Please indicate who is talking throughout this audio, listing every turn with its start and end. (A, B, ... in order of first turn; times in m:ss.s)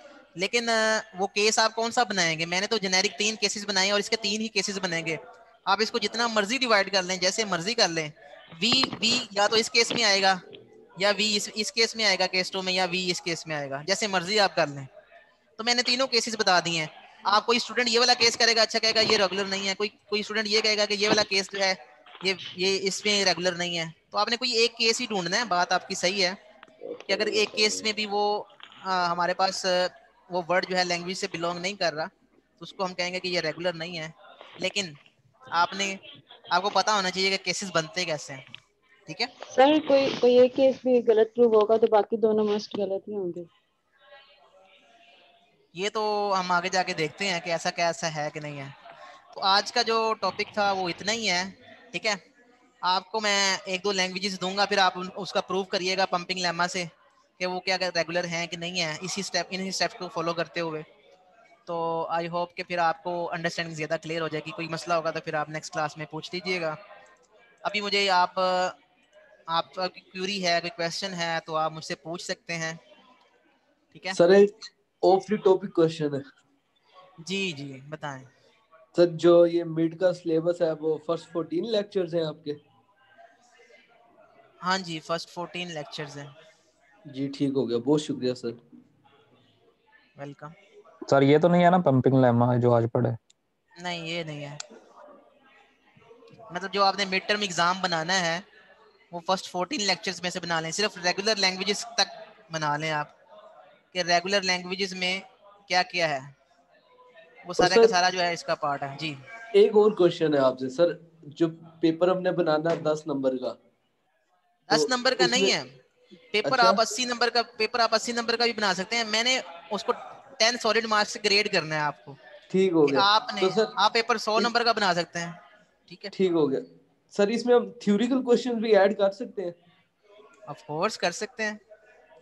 0:00.4-0:10.4 A
0:11.0-0:14.9 A
0:15.6-0:26.4 A
0:27.1-0:27.8 B
0:27.1-0:35.0 A
0:35.5-0:36.0 A
0:36.5-0:38.4 A
0:39.5-0:43.5 C
0:45.7-0:48.7 A
0:49.3-0:52.2 A
0:52.8-1:00.9 A
1:01.7-1:06.8 A
1:07.6-1:08.8 A
1:09.5-1:12.8 A
1:14.1-1:16.2 B
1:17.2-1:18.3 A
1:19.0-1:22.6 B
1:24.6-1:26.3 A
1:27.1-1:28.6 B
1:30.2-1:30.6 A
1:31.1-1:33.2 D
1:33.8-1:34.6 A
1:36.5-1:38.4 A
1:39.1-1:43.1 A
1:43.9-1:46.3 A
1:47.4-1:49.2 A
1:47.6-1:48.0 B
1:49.6-1:53.6 B
1:54.7-1:55.7 A
1:54.7-1:55.6 B
1:56.3-2:02.2 A
1:56.4-1:56.8 B
2:02.5-2:03.7 B
2:02.9-2:06.1 A
2:06.1-2:09.6 B
2:10.5-2:11.6 A